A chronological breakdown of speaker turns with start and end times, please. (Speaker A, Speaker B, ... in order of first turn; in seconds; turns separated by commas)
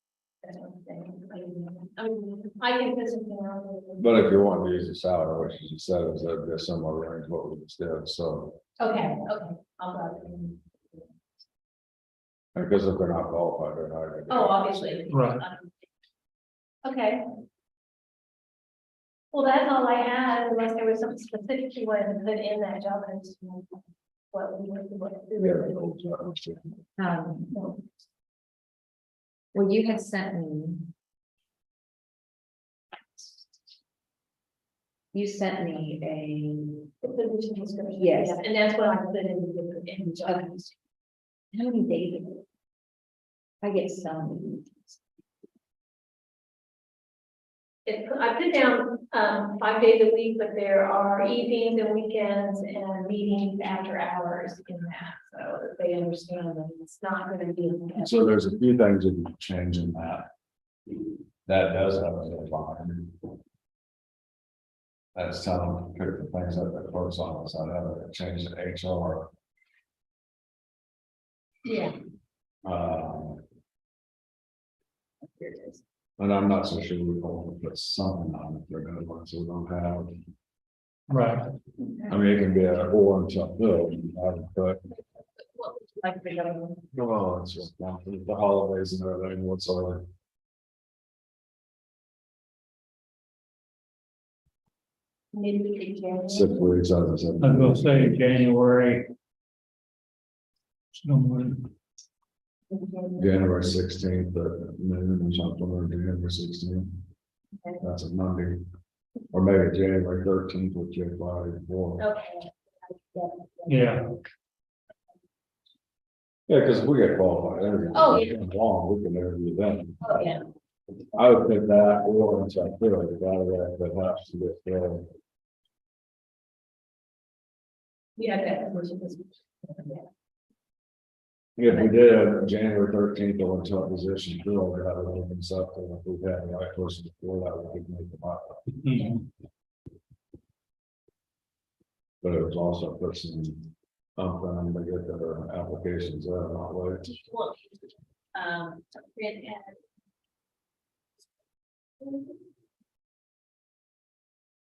Speaker A: 0.4-4.2, Speaker B: 4.0-8.6, Speaker A: 8.8-10.6, Speaker B: 12.5-15.1, Speaker A: 14.3-15.7, Speaker C: 15.1-15.4, Speaker A: 16.8-17.2, Speaker A: 19.3-23.8, Speaker A: 24.3-26.1, Speaker B: 25.4-26.7, Speaker D: 27.0-27.6, Speaker A: 27.5-27.8, Speaker D: 29.5-30.9, Speaker D: 35.1-36.9, Speaker A: 37.0-40.7, Speaker D: 38.0-38.4, Speaker D: 41.5-42.4, Speaker D: 43.6-45.0, Speaker A: 47.9-58.2, Speaker B: 58.0-60.3, Speaker B: 61.4-63.2, Speaker B: 65.1-69.3, Speaker A: 71.6-72.0, Speaker B: 72.6-73.4, Speaker A: 75.2-75.8, Speaker B: 76.2-80.1, Speaker C: 81.1-81.5, Speaker B: 82.1-84.8, Speaker A: 85.5-86.8, Speaker B: 86.9-90.0, Speaker A: 95.3-96.8, Speaker B: 96.3-98.2, Speaker C: 97.4-99.1, Speaker C: 101.0-101.7, Speaker A: 102.7-103.2, Speaker B: 103.2-107.0, Speaker B: 107.8-108.6, Speaker B: 109.3-112.1, Speaker A: 112.0-112.5, Speaker A: 113.1-114.0, Speaker C: 113.7-114.1, Speaker B: 116.5-120.3, Speaker A: 117.9-118.3, Speaker A: 120.0-120.4, Speaker B: 121.1-125.1, Speaker A: 128.2-130.0, Speaker B: 131.6-138.7, Speaker C: 138.8-139.1, Speaker B: 142.2-147.1, Speaker A: 147.1-149.8